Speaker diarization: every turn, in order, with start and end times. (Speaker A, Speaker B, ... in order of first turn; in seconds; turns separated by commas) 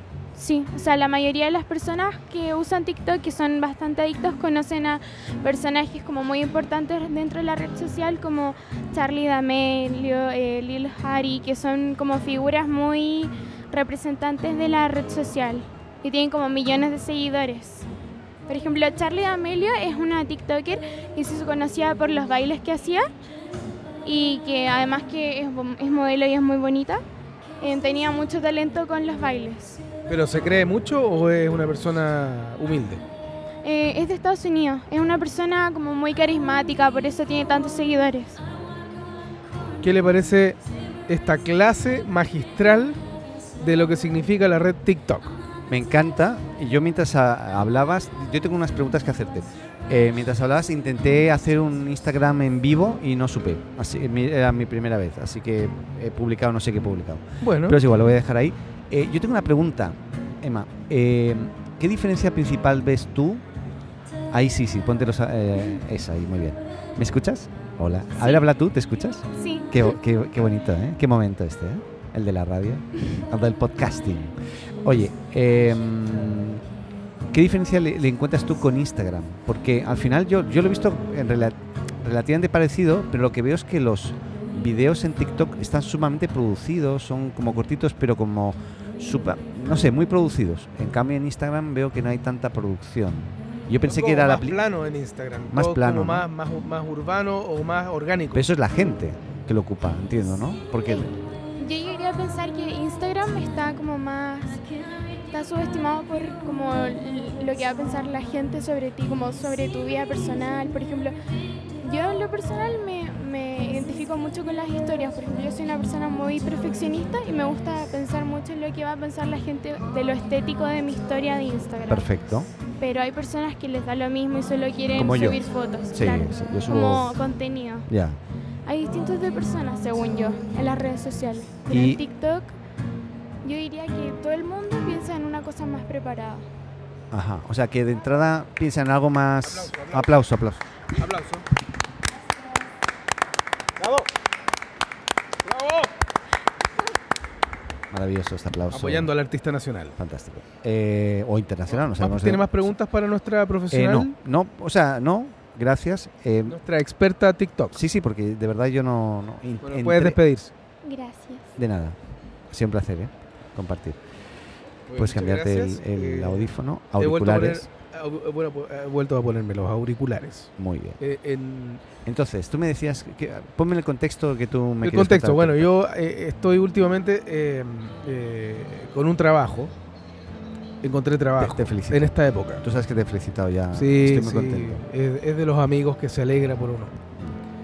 Speaker A: 0.3-17.9, Speaker A: 18.5-23.1, Speaker A: 24.0-27.0, Speaker A: 27.6-29.8, Speaker B: 30.1-33.0, Speaker A: 33.6-38.4, Speaker B: 39.8-43.0, Speaker B: 43.6-45.4, Speaker C: 45.7-63.4, Speaker B: 57.4-57.8, Speaker C: 64.3-76.6, Speaker A: 69.3-69.8, Speaker C: 77.3-94.6, Speaker B: 93.8-98.5, Speaker C: 95.5-96.3, Speaker C: 98.3-101.1, Speaker A: 101.6-104.6, Speaker A: 105.3-111.1, Speaker A: 111.8-122.1, Speaker C: 121.9-122.5, Speaker A: 122.8-127.9, Speaker C: 124.9-125.4, Speaker C: 125.9-127.2, Speaker C: 127.9-128.2, Speaker A: 128.7-132.5, Speaker C: 131.7-132.0, Speaker A: 133.4-136.4, Speaker C: 137.1-140.6, Speaker B: 139.4-140.1, Speaker B: 141.0-141.4, Speaker B: 145.5-145.9, Speaker C: 147.9-149.1, Speaker B: 148.7-149.9, Speaker C: 150.0-152.6, Speaker B: 151.7-154.1, Speaker C: 153.7-156.6, Speaker B: 156.5-157.8, Speaker C: 157.7-160.2, Speaker B: 159.6-160.5, Speaker A: 160.8-161.4, Speaker C: 161.6-162.0, Speaker C: 162.5-164.0, Speaker B: 164.9-171.8, Speaker C: 164.9-167.7, Speaker C: 170.6-171.0, Speaker C: 172.0-175.7, Speaker B: 174.8-179.7, Speaker B: 180.8-182.6, Speaker C: 181.4-184.8, Speaker B: 183.7-186.9